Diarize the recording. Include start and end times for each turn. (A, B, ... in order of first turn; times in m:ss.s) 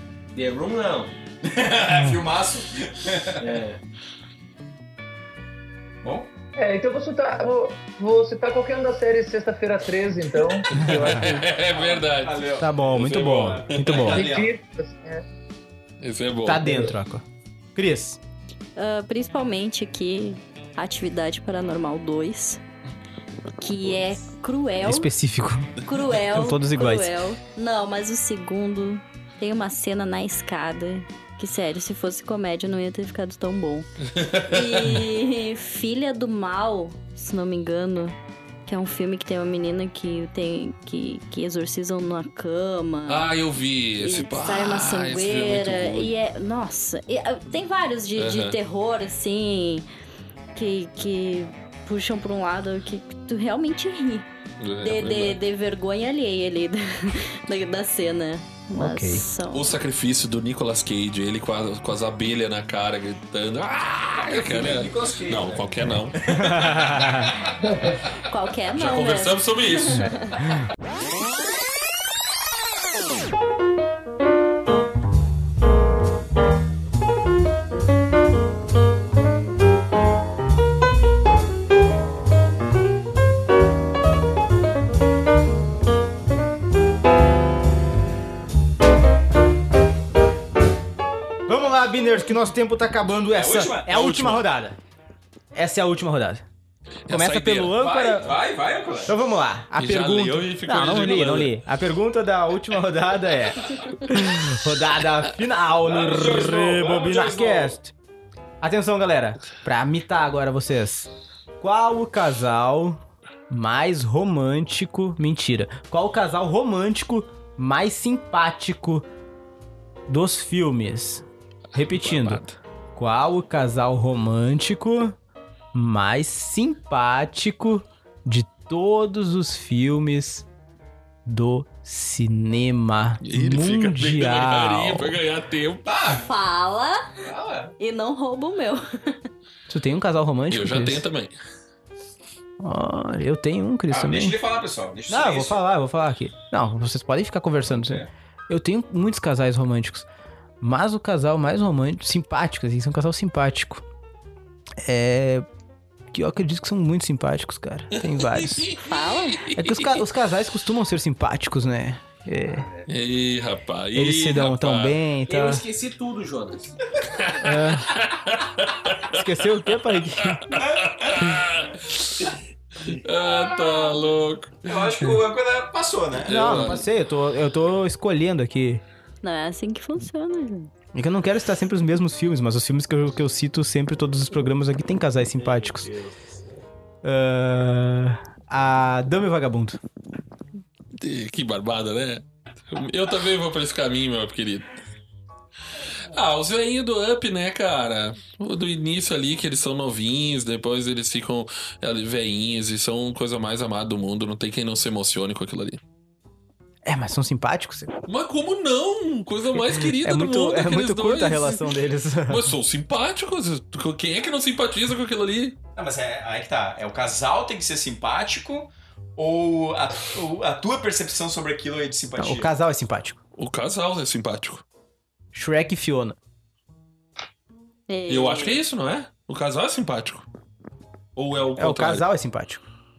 0:00.3-0:01.1 A
0:01.4-0:03.5 B
0:03.4-0:03.8 A
0:06.0-0:06.3 B
0:06.6-0:11.5 C
0:10.7-0:14.0 D
0:11.5-0:14.5 B
0:12.6-0:14.3 E
0:14.0-0:15.2 C
0:16.0-0:16.6 D
0:16.4-0:17.2 E
0:16.6-0:16.9 C
0:17.7-0:18.2 E
0:18.8-0:22.6 F
0:23.6-0:25.1 F
0:24.8-0:27.1 E
0:25.8-0:33.9 F
0:34.2-0:35.0 D
0:34.5-0:43.3 F
0:43.1-0:46.1 D
0:44.0-0:49.8 F
0:48.2-0:48.6 D
0:50.6-0:54.3 F
0:54.6-0:55.4 D
0:54.8-0:59.7 F
0:58.7-0:59.2 E
0:59.5-1:06.4 D
1:04.2-1:07.0 B
1:06.4-1:07.4 E
1:07.6-1:08.0 C
1:08.3-1:10.4 F
1:08.7-1:10.1 D
1:31.5-1:34.8 E
1:33.3-1:34.4 B
1:35.5-1:36.4 E
1:37.1-1:37.8 D
1:37.1-1:38.3 E
1:37.8-1:39.2 B
1:39.0-1:47.9 E
1:39.8-1:41.5 D
1:45.9-1:47.6 B
1:47.0-1:47.2 D
1:48.6-1:59.0 E
2:00.1-2:02.4 E
2:01.7-2:02.6 D
2:03.0-2:05.1 E
2:05.7-2:10.4 E
2:11.3-2:15.2 E
2:13.2-2:15.9 D
2:15.8-2:16.3 B
2:16.1-2:17.1 F
2:17.2-2:17.7 B
2:17.8-2:19.2 F
2:19.7-2:21.0 E
2:20.5-2:21.4 D
2:22.6-2:24.4 E
2:23.9-2:25.6 B
2:25.1-2:30.1 E
2:27.7-2:28.1 B
2:30.6-2:33.8 E
2:34.8-2:35.4 E
2:36.1-2:38.7 E
2:37.9-2:40.0 D
2:38.8-2:39.5 F
2:39.6-2:42.6 E
2:42.9-2:45.0 D
2:43.9-2:45.6 E
2:45.3-2:46.7 A
2:47.2-2:49.2 D
2:47.4-2:48.0 E
2:49.1-2:50.5 E
2:50.2-2:52.1 D
2:50.5-2:51.4 B
2:52.9-2:54.9 D
2:54.6-2:56.4 B
2:56.2-2:56.8 D
2:56.2-2:58.8 E
2:59.2-3:00.7 F
3:00.9-3:05.9 E
3:07.0-3:09.8 E
3:11.0-3:14.7 D
3:16.1-3:25.8 D
3:26.8-3:27.9 E
3:28.0-3:31.6 D
3:29.5-3:32.5 E
3:32.3-3:35.6 D
3:35.8-3:42.5 B
3:42.2-3:43.2 E
3:43.4-3:44.6 D
3:45.3-3:46.2 E
3:47.9-3:48.6 F
3:48.1-3:50.3 D
3:51.2-3:52.0 D
3:51.6-3:52.6 E